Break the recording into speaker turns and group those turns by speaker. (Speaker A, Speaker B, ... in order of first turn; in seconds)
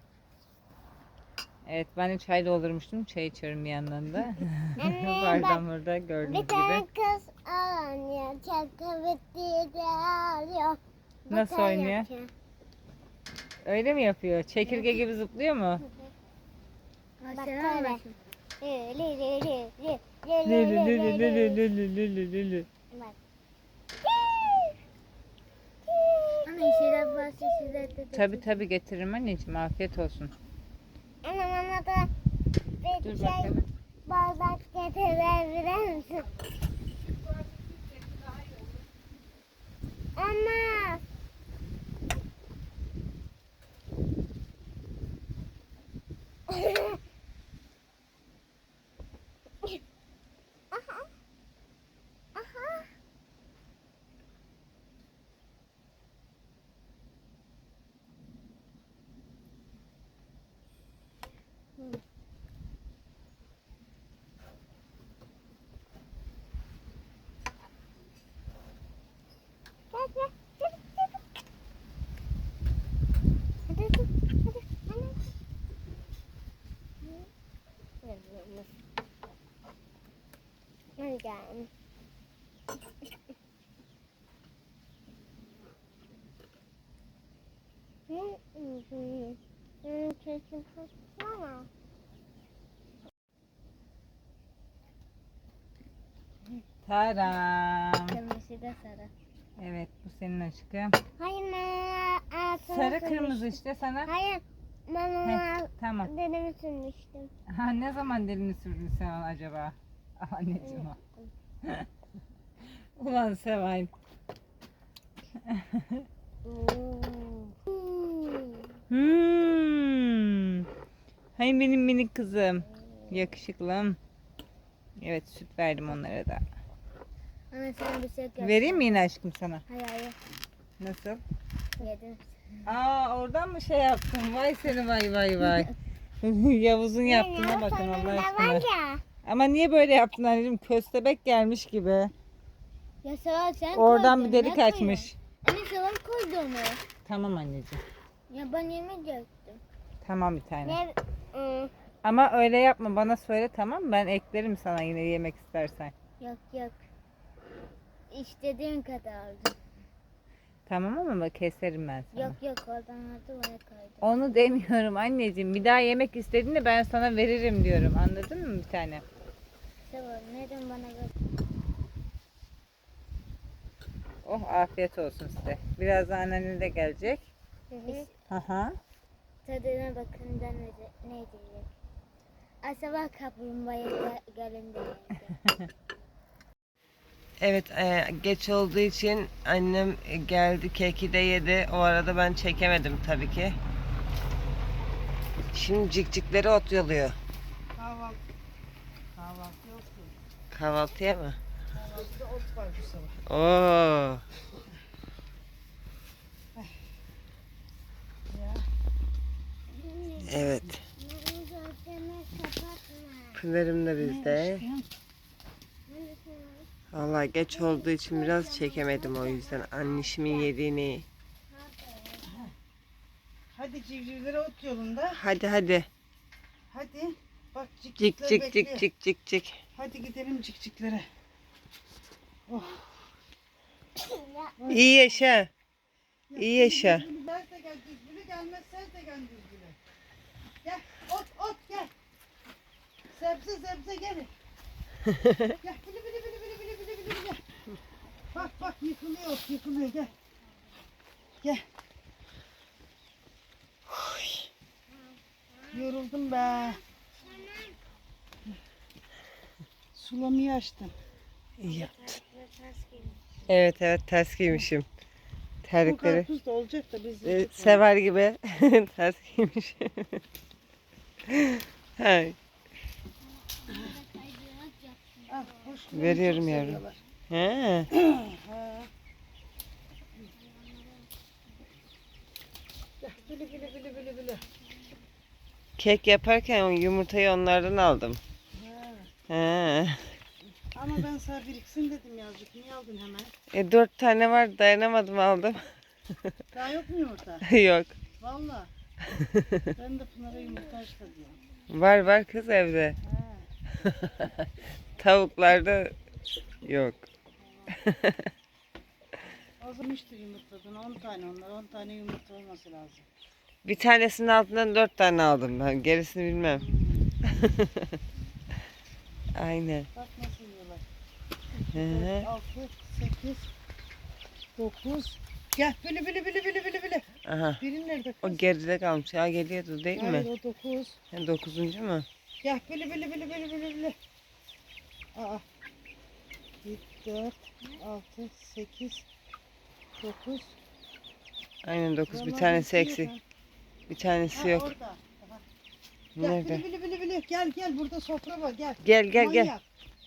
Speaker A: 1.7-6.8, 11.3-12.1, 13.7-15.8, 20.4-22.7, 28.1-30.3, 33.0-33.7, 96.8-98.2, 99.6-101.0, 102.7-104.1, 105.2-106.1, 107.5-111.0, 111.6-111.9, 112.7-113.9, 115.4-116.1, 118.9-120.7, 121.4-124.0, 125.0-126.4, 128.4-129.6, 130.8-131.2, 132.7-138.7, 139.2-142.1, 143.7-145.2, 147.1-147.8, 150.0-150.8, 152.0-155.9, 160.7-162.4, 164.0-169.0, 174.2-177.3, 178.3-178.8
Speaker B: 4.8-5.6, 6.2-12.3, 14.7-15.0, 17.3-18.0, 18.6-21.6, 24.0-24.8, 25.9-27.9, 31.2-32.1, 32.8-33.5, 34.1-36.3, 40.2-41.0, 46.5-47.0, 50.7-51.1, 52.4-52.9, 69.9-71.2, 73.7-75.2, 78.0-78.7, 81.0-81.7, 88.1-91.7, 101.2-107.3, 110.6-111.3, 116.5-118.7, 137.0-139.0, 150.7-151.7, 177.7-178.1, 209.8-210.3, 211.0-213.4, 215.9-216.7, 217.5-220.5, 221.5-222.3, 234.0-234.8, 255.5-257.8, 261.7-263.2
Speaker C: 17.2-18.1, 26.4-28.7, 98.1-99.1, 127.5-129.1, 129.7-130.2, 131.8-132.4, 143.0-146.8, 148.3-149.6, 156.2-156.8, 158.1-159.6, 162.1-164.2, 169.9-171.1, 177.9-178.1, 179.4-181.7, 182.6-185.4, 273.7-275.3
Speaker D: 187.4-193.6, 195.5-197.2, 200.5-201.4, 203.3-204.2, 210.3-210.8, 213.3-214.6, 216.9-221.1, 225.1-225.9, 228.0-229.6, 234.7-235.5, 236.4-237.1, 245.1-245.5, 261.6-262.2, 263.5-264.9, 265.6-266.3, 267.2-270.2, 271.3-272.4, 275.9-277.9, 285.8-288.2, 289.3-290.2, 293.5-296.3, 297.5-297.9, 299.1-299.7, 301.7-303.0, 303.8-305.9, 306.6-307.1, 307.7-308.3, 313.6-316.6, 317.2-318.0, 319.4-319.9, 321.7-322.3, 327.3-327.6, 328.2-330.3, 331.1-332.1, 341.6-343.1, 343.9-344.7, 346.2-346.6, 348.8-349.5
Speaker E: 197.8-198.2, 199.2-200.1, 201.7-203.2, 208.3-208.7, 210.2-210.8, 214.0-214.9, 222.2-222.5, 223.5-225.2, 226.7-228.8, 229.7-231.1, 232.5-232.9, 234.6-235.1, 236.3-239.8, 240.6-241.9, 243.1-244.3, 245.6-247.4, 248.3-250.1, 255.7-256.8, 259.9-260.9, 265.8-267.8, 273.7-274.0, 275.3-277.0, 277.9-278.9, 283.0-284.4, 288.6-289.1, 290.7-293.3, 296.5-297.5, 298.2-298.7, 299.8-301.4, 303.0-303.5, 307.4-307.8, 309.6-313.1, 316.6-317.1, 319.9-320.8, 321.7-323.5, 324.6-327.1, 327.6-328.4, 329.9-331.0, 332.4-334.0, 335.1-335.4, 336.6-339.0, 340.0-340.6, 342.1-343.2, 344.3-345.4, 346.2-349.6